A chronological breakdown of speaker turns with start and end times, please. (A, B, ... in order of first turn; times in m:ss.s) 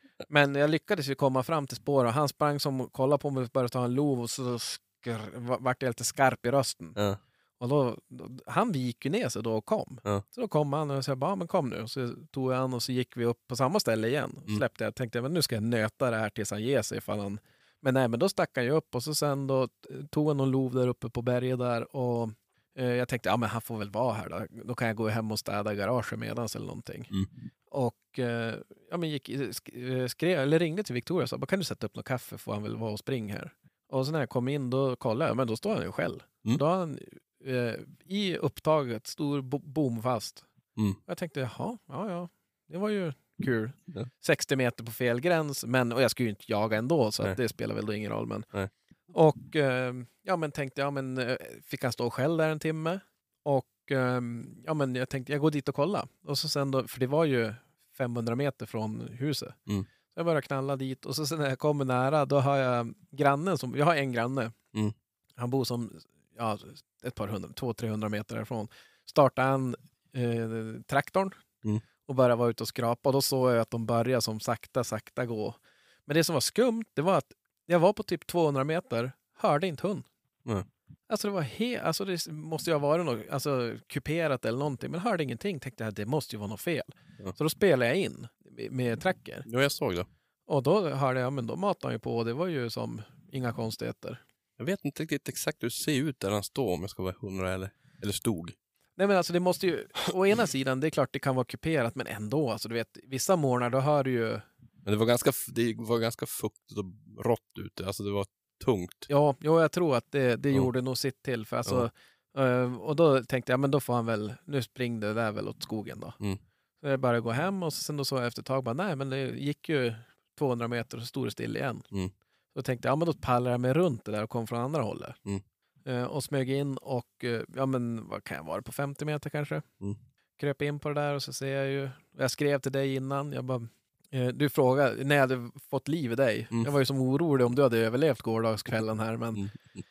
0:00.3-0:07.0 A
0:07.6-0:27.1 A
0:27.7-0:40.4 A
0:41.1-0:48.5 A
0:49.1-0:59.6 A
1:00.1-1:04.5 A
1:05.4-1:11.4 A
1:12.0-1:20.1 A
1:21.1-1:29.4 A
1:29.4-1:30.1 B
1:30.5-1:34.2 A
1:34.6-1:38.6 B
1:39.0-1:44.4 A
1:44.8-1:49.1 B
1:49.1-1:56.2 A
1:56.8-2:01.9 A
2:02.5-2:05.2 A
2:05.9-2:09.6 A
2:10.4-2:19.4 A
2:19.3-2:19.8 B